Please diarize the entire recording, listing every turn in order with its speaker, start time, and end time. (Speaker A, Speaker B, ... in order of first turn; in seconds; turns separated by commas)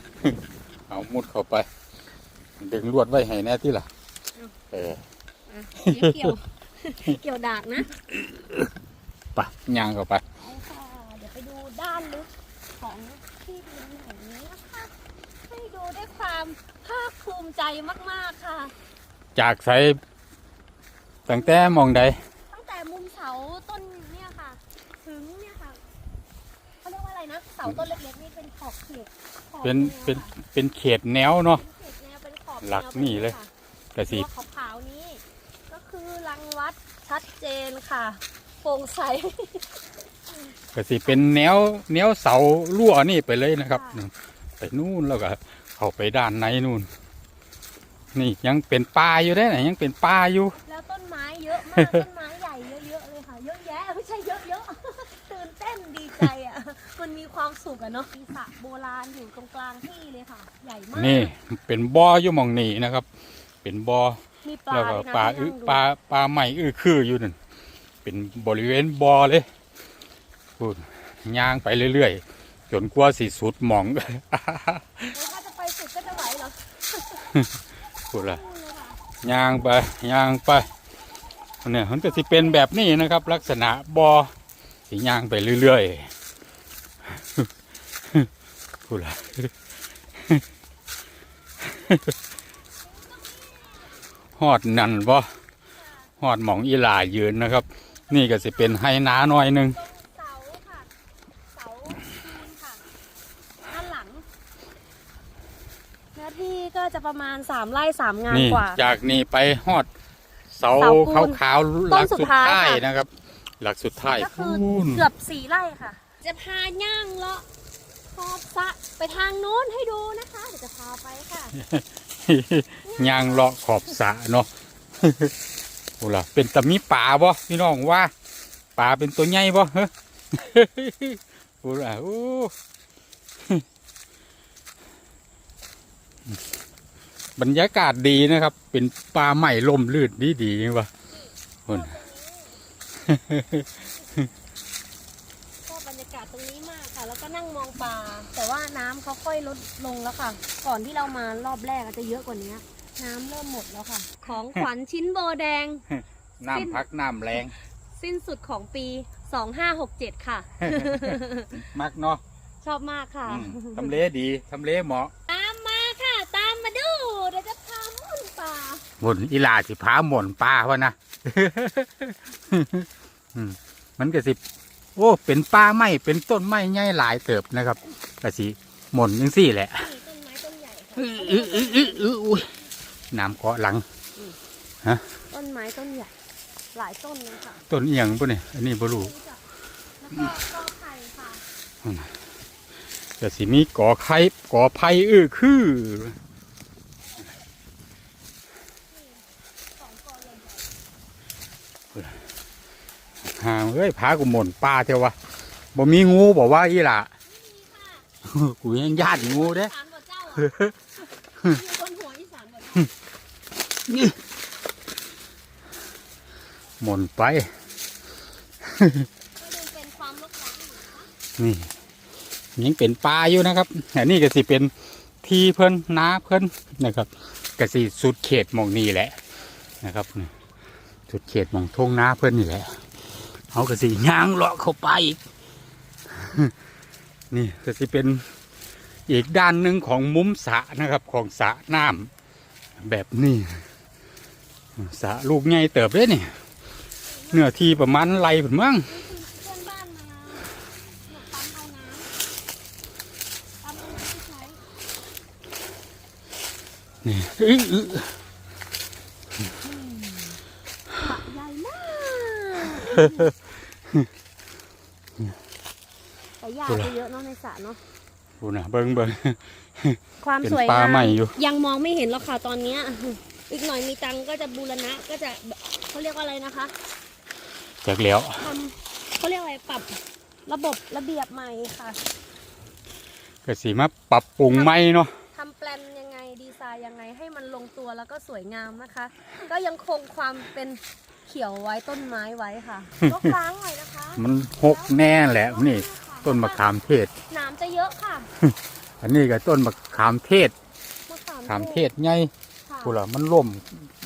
Speaker A: 0.9-1.7, Speaker A: 2.6-3.9, Speaker A: 4.7-5.0, Speaker B: 5.5-7.9, Speaker A: 5.8-6.3, Speaker A: 9.3-10.2, Speaker B: 10.4-14.9, Speaker B: 15.5-18.7, Speaker A: 19.4-20.0, Speaker A: 21.2-22.2, Speaker B: 21.3-21.9, Speaker B: 22.5-25.8, Speaker B: 26.8-30.3, Speaker A: 29.6-31.6, Speaker B: 31.5-33.5, Speaker A: 32.6-33.4, Speaker A: 33.9-34.2, Speaker B: 34.0-40.5, Speaker A: 40.7-46.9, Speaker B: 43.7-44.0, Speaker A: 48.1-50.6, Speaker B: 50.6-61.3, Speaker A: 60.9-63.0, Speaker A: 63.6-67.4, Speaker B: 64.4-65.8, Speaker A: 68.0-69.5, Speaker A: 70.6-75.1, Speaker B: 75.1-77.2, Speaker B: 78.1-79.0, Speaker A: 78.1-78.4, Speaker A: 79.2-80.7, Speaker A: 81.6-84.3, Speaker B: 82.1-82.4, Speaker A: 84.9-86.1, Speaker A: 87.1-87.5, Speaker A: 88.9-89.5, Speaker A: 90.2-90.4, Speaker A: 91.7-92.0, Speaker B: 92.8-94.0, Speaker A: 94.4-95.3, Speaker B: 95.8-96.1, Speaker A: 96.2-99.8, Speaker B: 97.9-98.8, Speaker B: 99.6-100.9, Speaker B: 101.5-102.8, Speaker B: 103.7-104.2, Speaker B: 106.1-108.8, Speaker A: 108.3-109.9, Speaker A: 110.5-113.1, Speaker B: 110.8-112.8, Speaker A: 113.6-115.0, Speaker B: 114.1-117.5, Speaker B: 118.1-121.6, Speaker A: 121.6-125.3, Speaker B: 122.8-124.0, Speaker A: 126.0-128.1, Speaker A: 128.8-132.5, Speaker A: 137.4-140.9, Speaker B: 141.1-142.6, Speaker A: 143.1-143.7, Speaker B: 145.7-155.8, Speaker A: 155.9-157.5, Speaker B: 156.5-156.8, Speaker B: 157.9-161.6, Speaker A: 160.6-162.2, Speaker B: 162.6-163.9, Speaker A: 163.3-165.1, Speaker B: 165.3-168.8, Speaker A: 169.0-174.4, Speaker A: 174.9-179.9, Speaker B: 179.8-182.1, Speaker A: 181.0-182.5, Speaker A: 183.1-183.8, Speaker B: 185.3-186.1, Speaker B: 186.7-187.6, Speaker A: 187.7-189.1, Speaker B: 188.8-189.4, Speaker B: 190.0-191.4, Speaker A: 191.8-192.1, Speaker A: 193.2-196.2, Speaker B: 198.9-199.2, Speaker B: 199.8-200.7, Speaker A: 201.9-202.2, Speaker A: 203.2-205.1, Speaker A: 205.7-207.1, Speaker B: 207.2-208.1, Speaker A: 208.2-209.7, Speaker B: 208.9-210.5, Speaker A: 210.4-210.7, Speaker B: 211.4-212.9, Speaker A: 213.9-214.1, Speaker A: 216.8-217.5, Speaker A: 218.6-219.1, Speaker B: 219.4-221.1, Speaker A: 221.4-221.7, Speaker A: 222.6-224.7, Speaker A: 225.2-229.2, Speaker A: 229.8-230.3, Speaker A: 231.1-232.8, Speaker A: 233.5-235.2, Speaker A: 236.1-236.5, Speaker A: 237.3-238.2, Speaker A: 239.1-242.1, Speaker A: 242.8-243.6, Speaker A: 244.8-246.3, Speaker B: 247.0-247.6, Speaker A: 247.3-248.9, Speaker B: 248.9-252.1, Speaker B: 253.6-254.6, Speaker A: 257.0-258.1, Speaker B: 259.6-260.4, Speaker B: 260.9-263.3, Speaker B: 266.4-267.8, Speaker A: 268.4-271.4, Speaker B: 270.2-276.7, Speaker A: 277.8-278.5, Speaker B: 278.4-282.0, Speaker A: 283.4-285.1, Speaker B: 284.5-284.7, Speaker B: 285.3-296.6, Speaker A: 293.0-293.3, Speaker A: 294.1-297.1, Speaker B: 297.3-298.3, Speaker A: 298.4-300.5, Speaker B: 301.1-301.8, Speaker A: 301.5-302.3, Speaker B: 302.6-302.9, Speaker A: 302.8-303.9